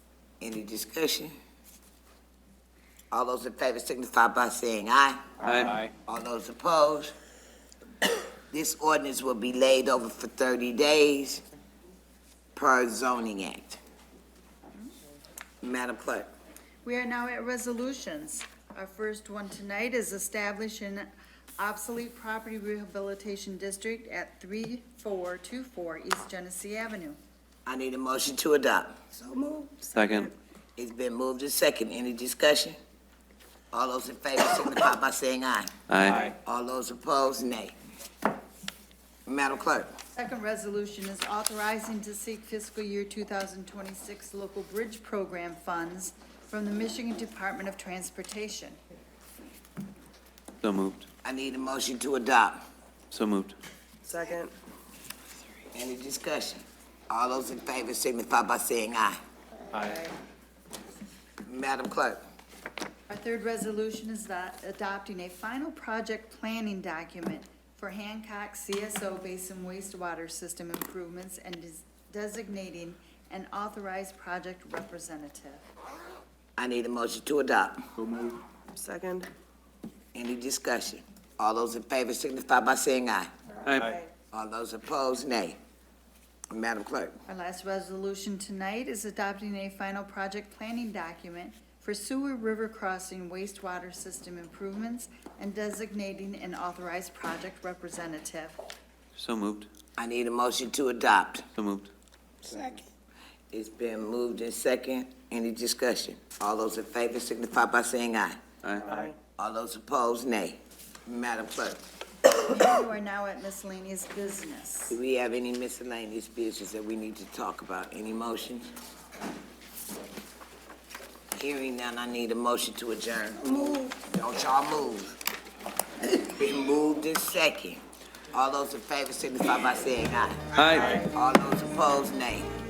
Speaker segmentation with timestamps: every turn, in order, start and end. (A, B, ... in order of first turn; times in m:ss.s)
0:00.4-0:01.3 A
0:03.1-0:05.3 A
0:05.4-0:05.9 B
0:06.0-0:07.1 A
0:08.5-0:11.4 A
0:12.5-0:13.8 A
0:15.6-0:16.3 A
0:16.8-0:21.0 C
0:21.6-0:27.2 C
0:27.6-0:29.0 A
0:29.1-0:30.3 D
0:29.9-0:30.3 B
0:30.8-0:32.8 A
0:33.7-0:37.8 A
0:35.9-0:36.3 B
0:39.2-0:39.9 A
0:40.2-0:48.8 C
0:50.6-0:51.1 B
0:51.2-0:52.6 A
0:53.1-0:53.6 B
0:54.0-0:54.5 D
0:55.7-0:59.2 A
0:59.8-1:00.1 C
1:01.4-1:02.2 A
1:03.1-1:15.6 C
1:16.6-1:17.8 A
1:18.7-1:19.3 D
1:20.1-1:23.3 A
1:23.6-1:24.0 B
1:23.7-1:24.1 D
1:24.3-1:25.6 A
1:26.5-1:27.2 A
1:27.3-1:38.6 C
1:39.1-1:39.7 B
1:40.0-1:41.5 A
1:41.6-1:41.9 B
1:42.5-1:42.8 D
1:43.5-1:48.4 A
1:48.6-1:49.0 B
1:48.9-1:49.1 D
1:49.4-1:51.8 A
1:52.4-1:55.0 C
1:54.9-1:58.7 A
2:01.3-2:05.1 A
2:03.5-2:03.9 D
2:06.0-2:12.5 A
2:10.5-2:11.0 B